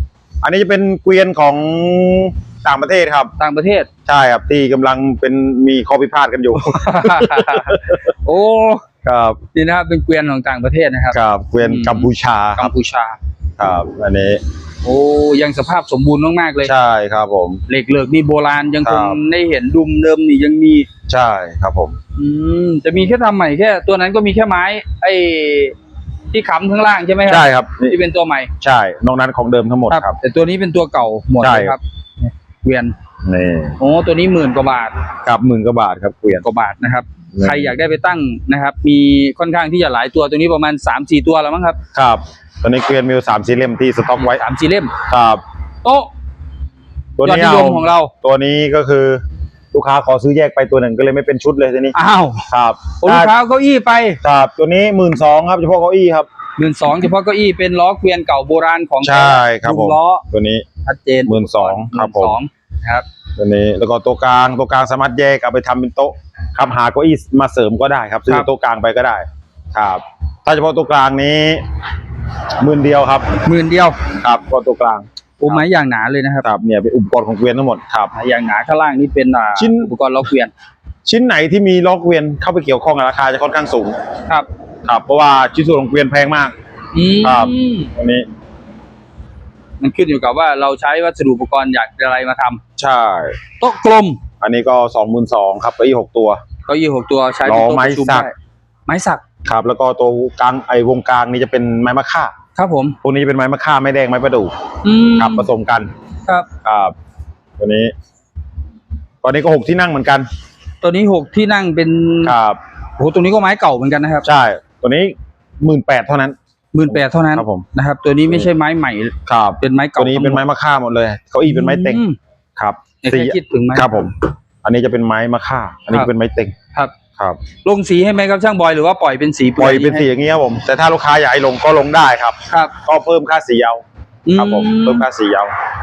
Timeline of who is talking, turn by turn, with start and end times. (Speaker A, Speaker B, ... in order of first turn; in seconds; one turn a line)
Speaker A: 0.4-3.3
Speaker B: 3.4-3.9
Speaker A: 4.0-8.1
Speaker B: 6.6-8.8
Speaker A: 9.0-9.4
Speaker B: 9.5-13.2
Speaker A: 11.1-12.7
Speaker A: 13.6-14.4
Speaker B: 14.8-16.7
Speaker A: 16.6-17.6
Speaker B: 17.7-20.9
Speaker A: 18.8-19.2
Speaker A: 21.1-21.9
Speaker B: 22.1-25.7
Speaker B: 26.3-28.5
Speaker A: 27.3-27.9
Speaker A: 28.6-30.2
Speaker B: 29.9-32.9
Speaker A: 31.4-31.8
Speaker A: 33.2-33.8
Speaker B: 33.8-34.9
Speaker A: 35.2-36.4
Speaker B: 36.4-41.8
Speaker A: 37.3-37.7
Speaker A: 41.9-44.4
Speaker B: 44.2-44.9
Speaker A: 45.0-45.4
Speaker B: 45.8-46.1
Speaker A: 47.2-49.2
Speaker B: 47.2-48.1
Speaker A: 49.7-51.9
Speaker B: 51.9-52.5
Speaker A: 52.5-53.3
Speaker B: 53.0-54.2
Speaker A: 54.2-56.3
Speaker B: 56.6-60.2
Speaker A: 59.0-60.6
Speaker B: 60.8-63.0
Speaker A: 61.3-62.4
Speaker A: 63.4-71.6
Speaker A: 72.6-73.4
Speaker B: 73.4-74.0
Speaker A: 74.1-75.6
Speaker B: 75.4-76.5
Speaker A: 76.4-78.1
Speaker B: 78.1-80.5
Speaker A: 79.5-79.9
Speaker A: 81.0-84.0
Speaker A: 84.8-86.5
Speaker B: 86.9-87.9
Speaker A: 87.2-88.2
Speaker B: 89.8-92.6
Speaker A: 92.8-93.4
Speaker B: 93.6-94.2
Speaker A: 94.4-96.4
Speaker B: 96.7-98.3
Speaker A: 97.4-98.3
Speaker B: 98.9-99.2
Speaker A: 99.5-102.3
Speaker B: 102.5-103.0
Speaker A: 103.0-104.5
Speaker B: 104.8-105.5
Speaker A: 105.1-105.9
Speaker A: 106.6-106.9
Speaker A: 107.6-107.9
Speaker A: 109.2-110.2
Speaker B: 110.8-112.3
Speaker A: 112.2-112.6
Speaker B: 113.0-114.3
Speaker A: 114.2-116.3
Speaker B: 116.7-120.5
Speaker A: 116.9-117.7
Speaker A: 119.2-122.0
Speaker B: 121.4-122.2
Speaker A: 122.6-126.5
Speaker B: 123.0-123.9
Speaker A: 127.2-127.4
Speaker B: 127.6-130.1
Speaker A: 129.6-133.8
Speaker B: 134.2-135.1
Speaker A: 134.3-135.5